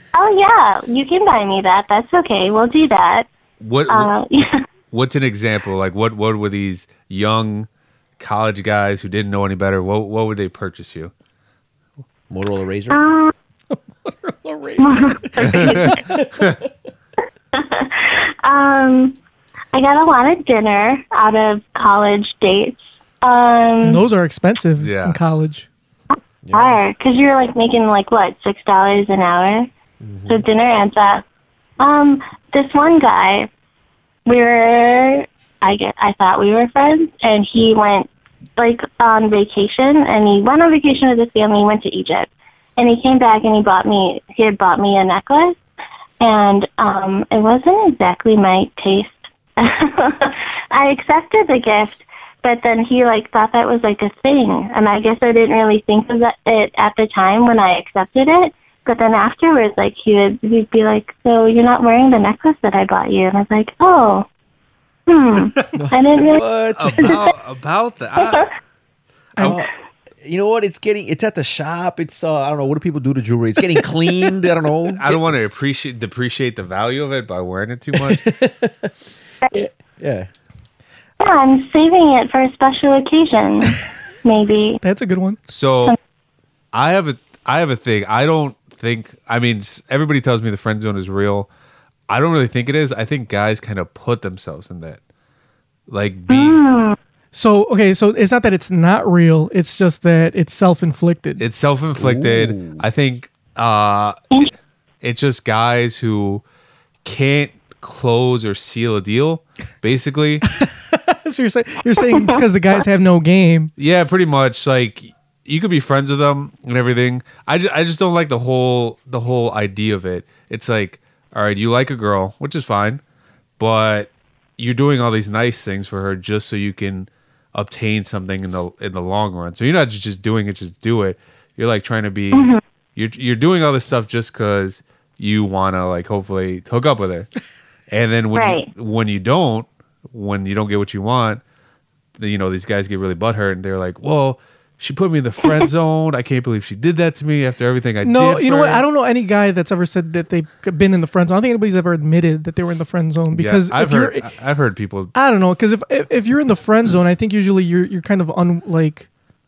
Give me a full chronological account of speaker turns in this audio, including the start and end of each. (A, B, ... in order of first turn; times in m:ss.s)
0:00.1-0:03.3 A
0:03.6-0:04.1 B
0:03.9-0:04.6 A
0:04.9-0:07.7 B
0:08.2-0:11.1 B
0:12.3-0:13.0 C
0:12.9-0:13.3 A
0:13.7-0:15.9 D
0:14.8-0:16.0 A
0:15.4-0:16.5 B
0:17.5-0:19.2 A
0:19.7-0:24.0 A
0:23.8-0:25.7 D
0:24.8-0:25.2 B
0:26.4-0:26.8 C
0:26.5-0:29.7 A
0:30.0-0:30.4 C
0:30.3-0:31.2 A
0:31.8-0:33.5 A
0:34.2-0:45.6 A
0:46.2-1:04.3 A
1:05.1-1:06.4 A
1:05.7-1:07.3 C
1:06.8-1:08.5 B
1:09.4-1:09.7 C
1:10.2-1:15.2 C
1:15.0-1:18.3 B
1:17.9-1:18.9 C
1:19.5-1:20.3 C
1:21.2-1:24.8 A
1:24.8-1:25.4 D
1:25.5-1:26.0 B
1:26.7-1:31.5 B
1:32.1-1:35.0 B
1:35.9-1:36.6 B
1:36.3-1:37.0 A
1:37.3-1:41.4 D
1:41.4-1:44.2 B
1:42.0-1:42.8 C
1:45.0-1:46.4 B
1:47.0-1:50.4 B
1:50.5-1:53.7 D
1:53.8-2:03.0 B
2:03.6-2:17.3 B
2:12.3-2:12.6 A
2:17.9-2:21.4 B
2:18.3-2:18.7 A
2:22.2-2:28.8 B
2:28.0-2:34.2 D
2:33.3-2:35.1 B
2:35.1-2:39.1 D